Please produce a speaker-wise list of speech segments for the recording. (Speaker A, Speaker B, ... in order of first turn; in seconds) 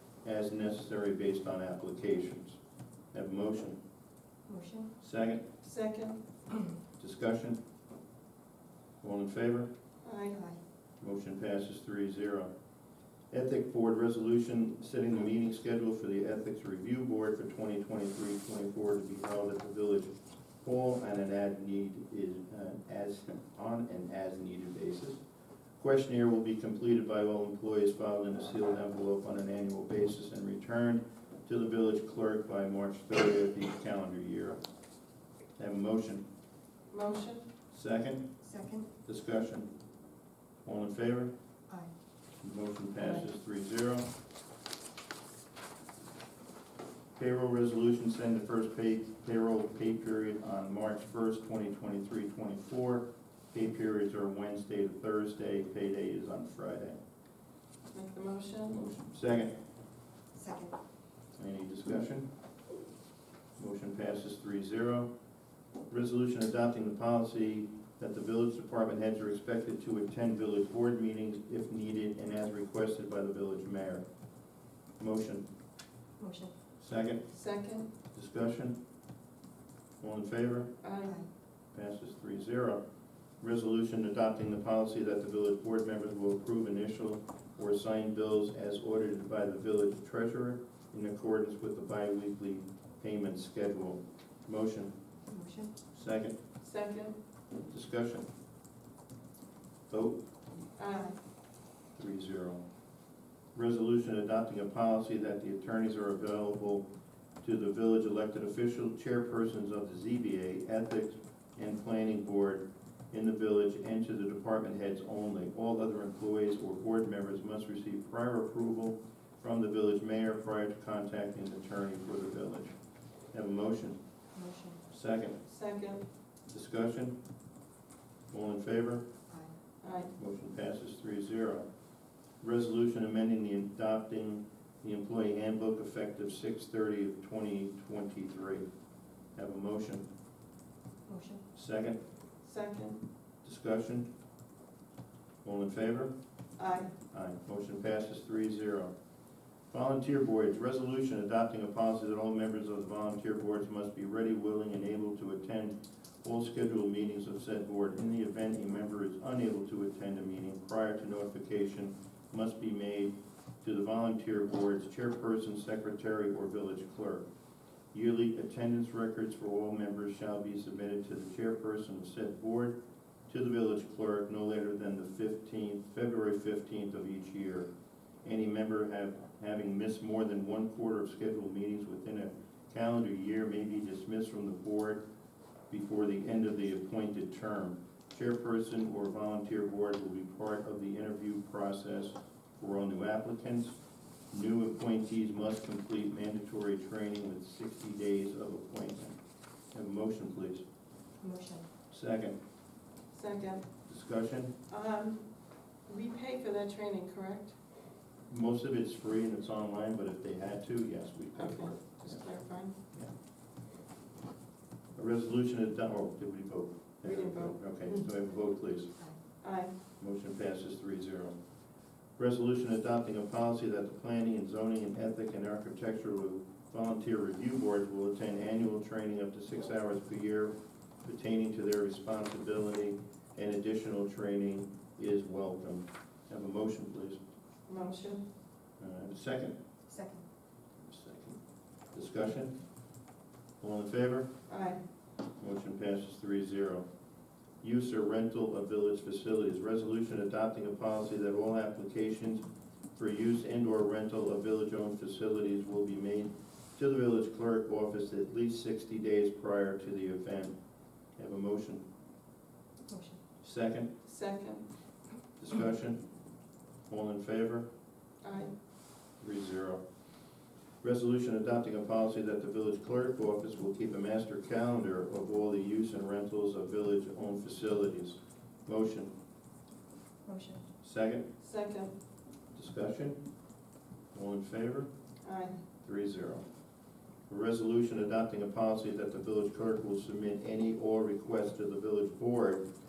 Speaker A: 0.2-2.6, 3.1-3.8, 5.0-5.4, 7.0-7.6, 9.0-9.7, 11.0-12.5, 13.3-25.2, 25.8-34.6, 35.6-36.2, 37.7-38.3, 39.0-39.7, 40.6-41.3, 42.4-44.1, 47.1-57.0, 58.7-59.6, 61.4-62.3, 63.6-65.1, 65.9-74.1, 75.0-75.5, 76.8-77.3, 78.1-78.8, 80.0-80.7, 81.7-82.8, 83.4-94.9, 95.9-96.4, 97.7-98.3, 99.9-100.2, 102.0-102.6, 103.5-106.9, 107.4-122.8, 123.3-124.0, 124.9-125.4, 126.5-127.2, 128.3-129.1, 130.2-131.7, 132.4-138.7, 139.3-140.1, 141.5-142.0, 143.4-144.1, 145.4-146.1, 147.1-148.9, 149.7-167.3, 167.9-177.7, 178.2-185.0, 185.7-193.8, 194.3-199.2, 199.7-200.6, 201.9-202.4, 203.9-204.5, 208.3-212.2, 215.0-219.0, 220.0-221.3, 222.2-237.2, 238.8-239.6, 240.8-241.4, 241.9-242.6, 243.6-244.3, 245.4-246.8, 247.6-260.6, 261.2-261.9, 263.4-263.9, 265.4-266.0, 266.9-267.7, 269.2-269.8, 270.8-279.1, 280.8-281.3, 282.5-283.2, 284.1-284.9, 285.8-286.4, 287.3-292.6
Speaker B: 4.5-4.9, 10.3-10.6, 38.4-38.9, 60.4-60.8, 76.2-76.5, 95.3-95.7, 124.3-124.8, 141.1-141.4, 201.2-201.7, 239.9-240.2, 262.9-263.2, 280.3-280.6
Speaker C: 5.6-6.2, 10.0-10.4, 36.9-37.5, 57.9-58.8, 77.3-77.9, 80.8-81.2, 96.6-97.2, 100.8-101.2, 125.5-126.0, 129.8-130.1, 142.4-143.0, 146.6-146.9, 203.1-203.7, 204.7-205.3, 205.9-207.6, 211.4-212.8, 217.1-217.6, 219.4-219.7, 237.7-238.2, 244.5-244.8, 264.1-264.7, 268.2-268.5, 281.4-281.9, 285.2-285.6